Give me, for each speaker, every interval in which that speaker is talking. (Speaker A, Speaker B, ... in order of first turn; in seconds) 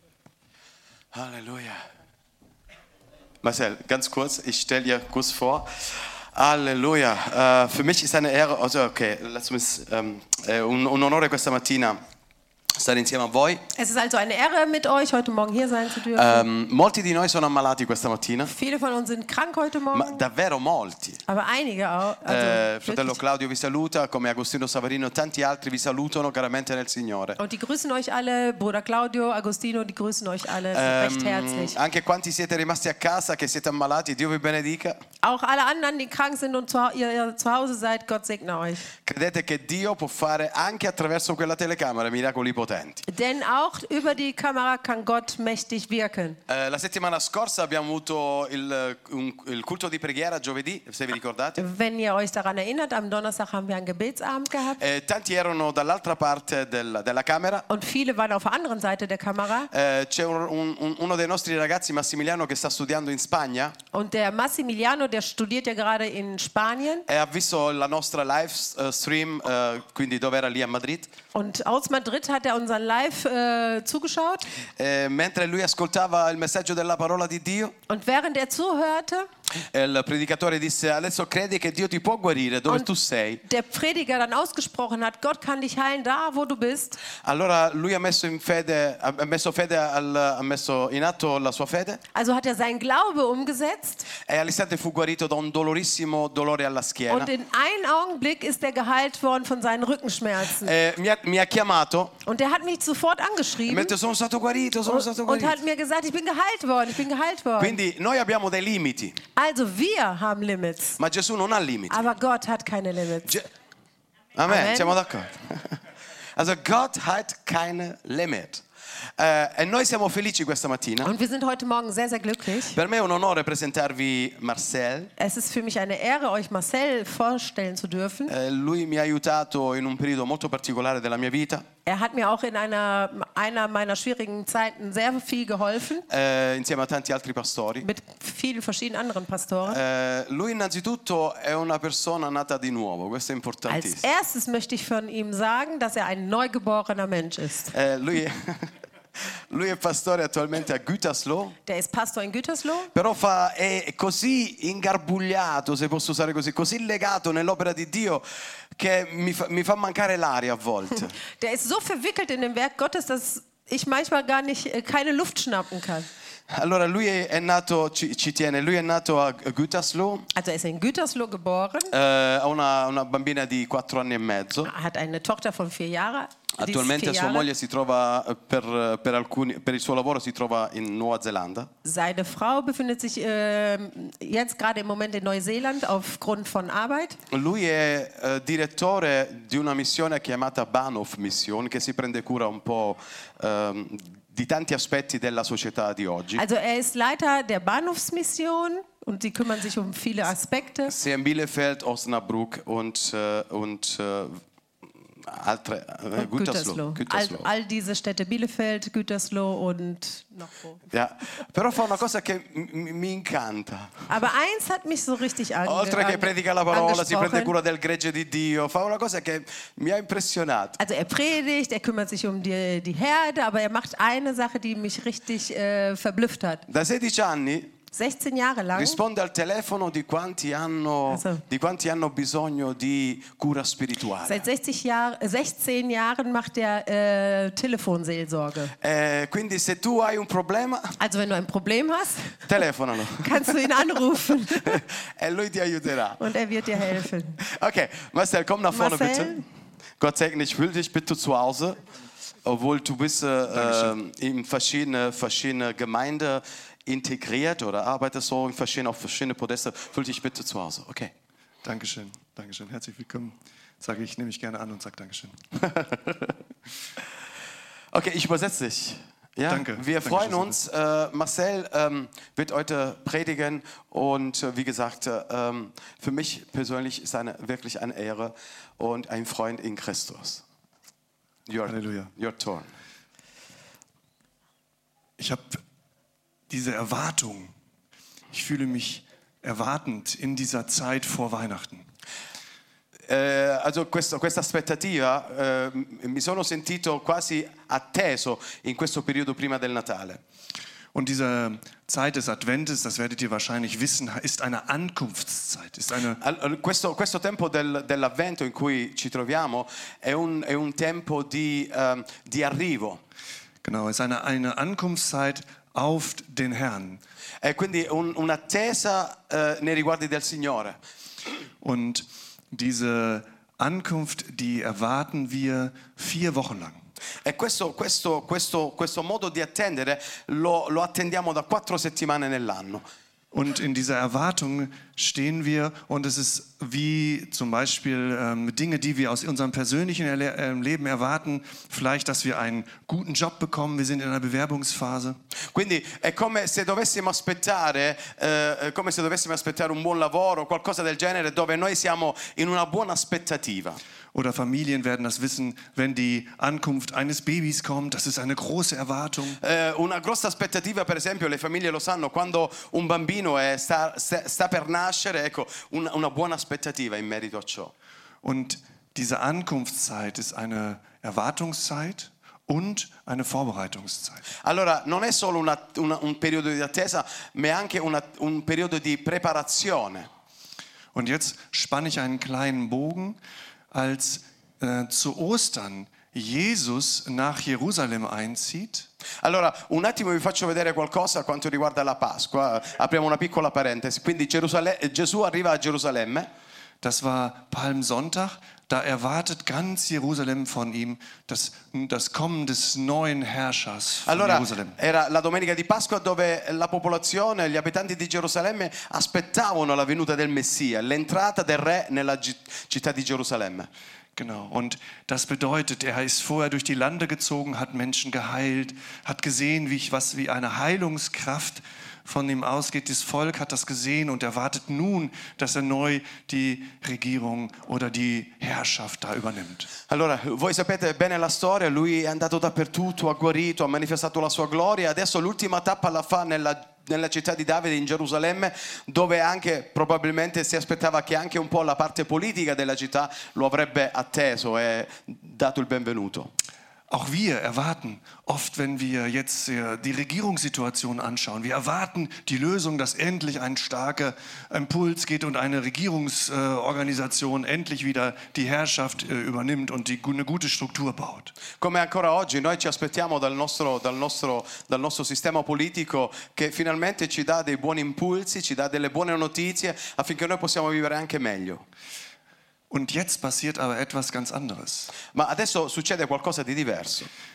Speaker A: 1.1-1.8, 3.4-12.0, 12.8-13.6, 16.1-18.5, 19.9-21.2, 22.3-27.4, 30.7-35.0, 39.0-43.0, 46.5-51.6, 54.8-57.6, 59.7-63.7, 67.1-71.1, 74.8-77.7, 79.7-83.4, 87.2-92.0, 94.2-97.3, 100.6-102.2, 103.7-105.6, 107.6-109.2, 111.0-112.1, 114.4-115.8, 116.4-118.6, 119.2-121.1, 122.7-125.1, 128.3-131.6, 136.1-137.9, 139.7-144.0, 147.7-151.6, 152.9-158.2, 158.8-161.1, 166.5-170.3, 171.9-174.7, 176.6-181.7, 187.3-196.4, 200.9-204.4, 205.2-207.5, 210.9-214.1, 215.7-220.8, 226.7-227.7, 228.8-234.4, 238.8-240.9, 242.5-243.6, 244.5-246.2, 247.4-249.4, 250.0-251.8, 252.4-261.1, 265.8-266.3, 267.9-280.4, 281.5-282.7, 293.1-300.2, 306.2-313.0, 317.4-320.8, 327.2-332.8, 345.5-353.8, 359.4-367.7, 374.4-380.1, 389.2-396.3, 404.1-413.7, 429.9-446.3, 461.6-471.6, 475.1-477.1
Speaker B: 13.7-16.5, 18.4-20.2, 21.3-23.2, 27.4-31.8, 35.2-38.9, 43.1-46.4, 51.6-54.8, 57.7-59.7, 63.9-67.1, 71.3-74.5, 77.9-79.3, 83.4-87.0, 92.1-94.1, 97.1-100.7, 102.2-103.9, 104.9-107.8, 109.3-111.0, 111.9-113.4, 114.5-115.0, 121.0-122.8, 125.2-128.3, 131.8-136.1, 137.8-139.8, 143.7-147.7, 151.7-152.9, 161.4-166.1, 170.3-171.9, 174.6-177.5, 181.8-187.2, 196.3-200.9, 206.2-210.8, 214.1-217.5, 220.8-226.7, 227.9-229.0, 231.1-231.4, 234.2-238.7, 241.0-242.4, 243.1-244.8, 246.2-247.4, 248.7-249.4
Speaker C: 253.5-253.9, 261.6-265.4, 269.5-270.6, 281.6-282.1, 285.2-285.6, 286.5-287.5, 288.3-291.8, 300.9-306.2, 313.6-317.0, 321.6-326.8, 333.3-345.2, 354.1-359.4, 368.2-374.3, 380.9-383.2, 383.7-388.9, 396.8-404.8, 414.1-429.7, 446.9-461.3, 472.7-474.9